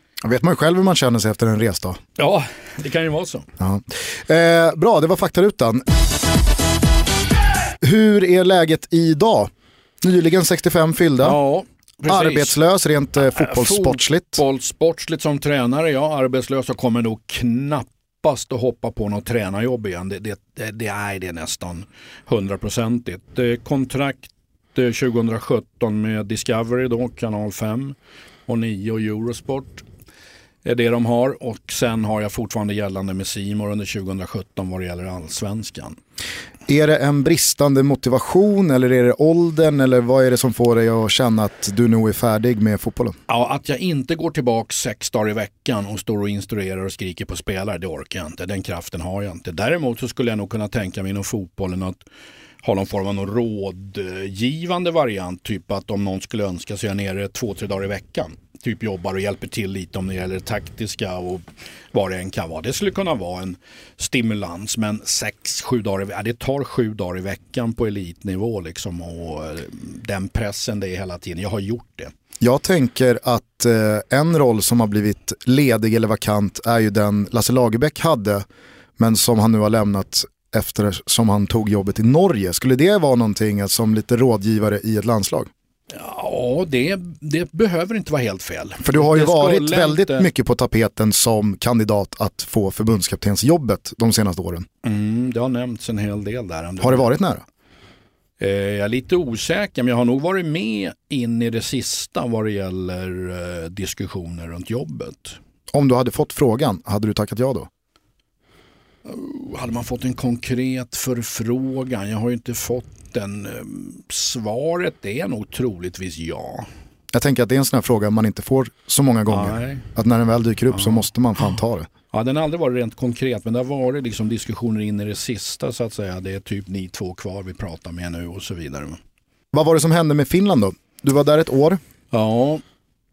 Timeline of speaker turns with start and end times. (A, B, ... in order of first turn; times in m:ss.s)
0:00.2-0:02.0 A
0:02.2-0:03.5 B
0:03.6-0:05.8 A
0:07.8-0:11.4 A
0:11.2-0:12.6 B
0:12.1-0:14.4 A
0:13.3-0:28.0 B
0:28.5-0:29.8 B
0:30.6-0:36.0 B
0:36.7-0:43.2 A
0:43.3-0:52.0 B
0:52.6-1:12.1 B
1:12.4-1:18.5 A
1:19.0-1:25.5 A
1:25.9-1:30.3 B
1:28.8-1:34.7 A
1:34.8-1:37.1 B
1:36.8-1:37.4 A
1:38.4-1:45.4 B
1:45.7-1:47.7 A
1:49.1-1:56.7 B
1:57.1-2:01.9 A
1:59.3-1:59.8 B
2:00.7-2:01.0 B
2:02.1-2:09.0 B
2:09.5-2:11.8 A
2:12.1-2:12.6 B